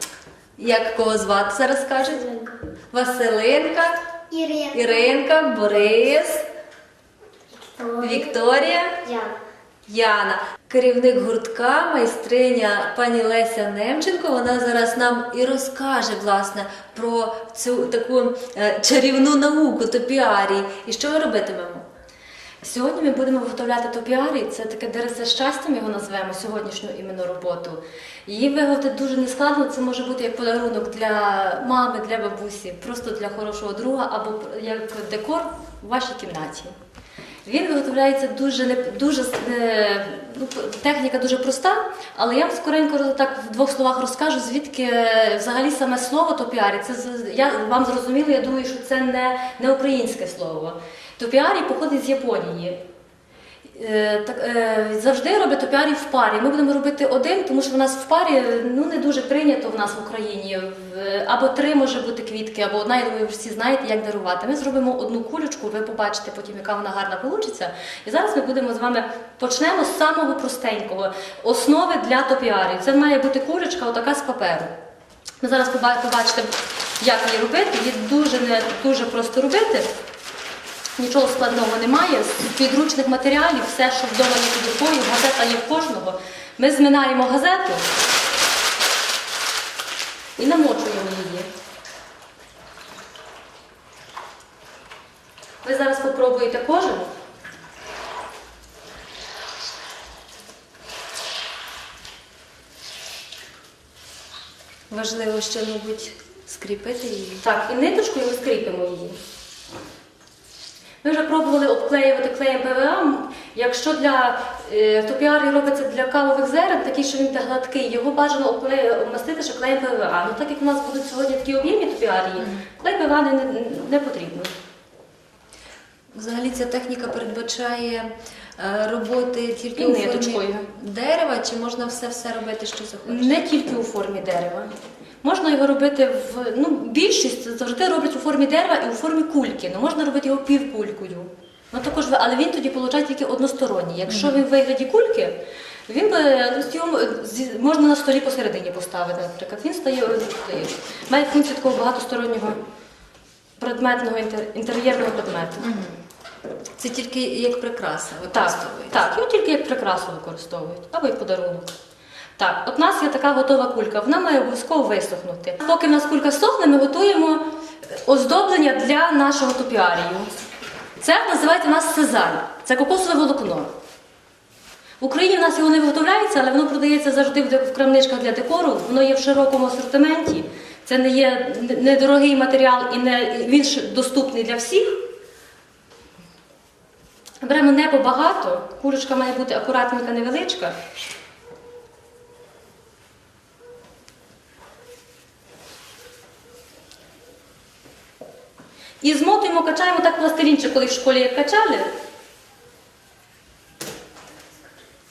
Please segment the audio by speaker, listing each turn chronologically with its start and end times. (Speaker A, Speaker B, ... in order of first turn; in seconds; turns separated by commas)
Speaker A: 0.6-2.3, Speaker A: 2.9-4.0, Speaker B: 4.3-5.2, Speaker A: 4.7-6.4, Speaker B: 7.5-8.3, Speaker A: 8.0-9.0, Speaker B: 9.0-9.3, Speaker A: 9.8-21.9, Speaker C: 22.6-36.7, Speaker C: 37.4-52.8, Speaker C: 53.7-74.7, Speaker C: 75.4-79.9, Speaker C: 81.0-88.0, Speaker C: 90.4-91.5, Speaker C: 95.6-97.1, Speaker A: 104.9-107.4, Speaker C: 107.4-109.2, Speaker C: 111.0-124.5, Speaker A: 122.4-122.6, Speaker A: 126.1-133.4, Speaker C: 129.7-130.7, Speaker C: 133.0-134.7, Speaker C: 135.2-152.6, Speaker A: 144.1-144.4, Speaker C: 153.6-155.7, Speaker A: 155.6-156.0, Speaker A: 156.8-159.1, Speaker C: 158.3-161.7, Speaker C: 162.4-170.3, Speaker C: 171.0-173.7, Speaker C: 175.0-185.1, Speaker C: 187.4-190.8, Speaker C: 199.0-201.9